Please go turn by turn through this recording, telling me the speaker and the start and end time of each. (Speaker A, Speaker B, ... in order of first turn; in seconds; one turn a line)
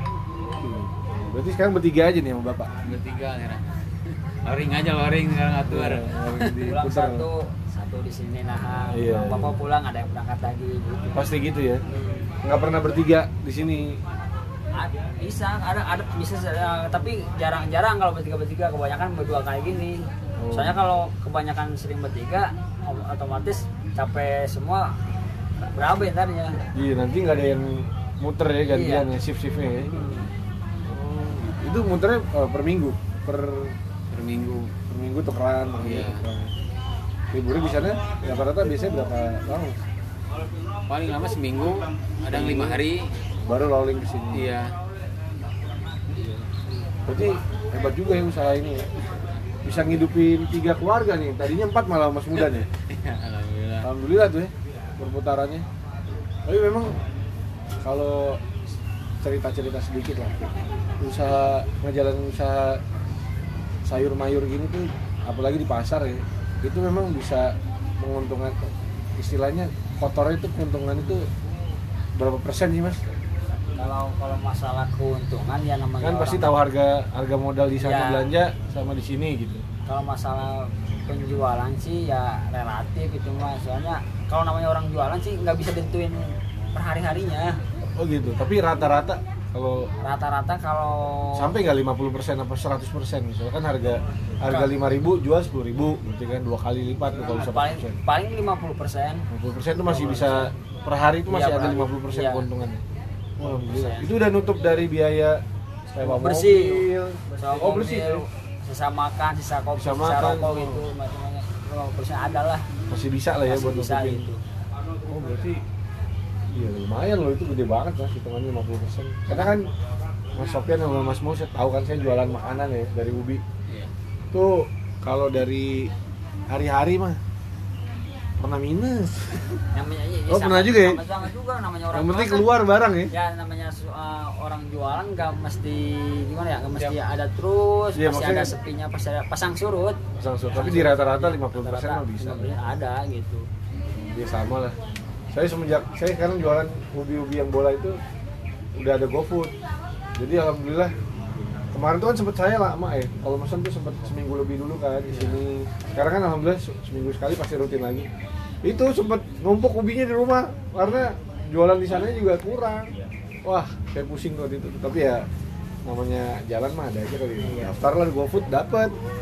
Speaker A: 0.4-2.9
Speaker B: 2.8-6.6
Speaker A: 5.7-7.2
Speaker C: 6.6-11.2
Speaker A: 8.9-9.5
Speaker A: 11.1-11.8
Speaker C: 11.9-12.3
Speaker A: 12.4-14.0
Speaker C: 14.8-24.9
Speaker A: 20.4-20.8
Speaker C: 25.7-26.6
Speaker A: 26.7-30.0
Speaker C: 28.7-29.1
Speaker C: 29.9-30.3
Speaker A: 30.8-33.7
Speaker B: 34.1-34.7
Speaker A: 34.9-36.5
Speaker B: 35.8-36.2
Speaker A: 37.3-39.8
Speaker B: 40.9-43.1
Speaker A: 42.3-42.8
Speaker A: 43.4-44.5
Speaker B: 44.3-44.7
Speaker C: 46.1-46.6
Speaker A: 47.1-49.0
Speaker B: 49.1-49.4
Speaker A: 49.6-52.7
Speaker B: 52.3-53.9
Speaker A: 53.8-55.6
Speaker A: 56.5-56.9
Speaker A: 57.8-58.5
Speaker A: 59.2-62.8
Speaker A: 63.9-71.3
Speaker A: 72.2-73.0
Speaker C: 73.8-76.5
Speaker A: 76.0-79.6
Speaker C: 77.8-78.3
Speaker C: 79.8-87.6
Speaker A: 88.0-89.9
Speaker C: 90.0-91.5
Speaker A: 91.3-98.0
Speaker C: 94.5-94.7
Speaker C: 97.1-99.2
Speaker A: 99.3-102.8
Speaker C: 99.8-100.5
Speaker C: 101.3-102.5
Speaker A: 103.4-108.2
Speaker C: 103.4-104.1
Speaker C: 106.0-112.7
Speaker A: 109.8-110.8
Speaker A: 112.9-114.2
Speaker C: 113.5-114.4
Speaker A: 115.0-115.6
Speaker A: 116.5-119.7
Speaker C: 119.3-119.5
Speaker A: 120.3-123.4
Speaker A: 124.3-125.9
Speaker A: 126.5-127.2
Speaker A: 128.4-129.6
Speaker C: 129.7-132.5
Speaker A: 130.3-131.0
Speaker A: 131.9-133.1
Speaker C: 133.1-140.0
Speaker A: 137.9-138.5
Speaker A: 140.2-142.6
Speaker C: 140.5-143.4
Speaker A: 143.9-144.8
Speaker A: 145.3-148.0
Speaker A: 148.8-149.5
Speaker A: 150.2-150.9
Speaker A: 151.6-158.1
Speaker B: 155.1-155.4
Speaker A: 158.6-162.9
Speaker A: 163.4-165.2
Speaker A: 165.8-168.9
Speaker C: 167.4-167.8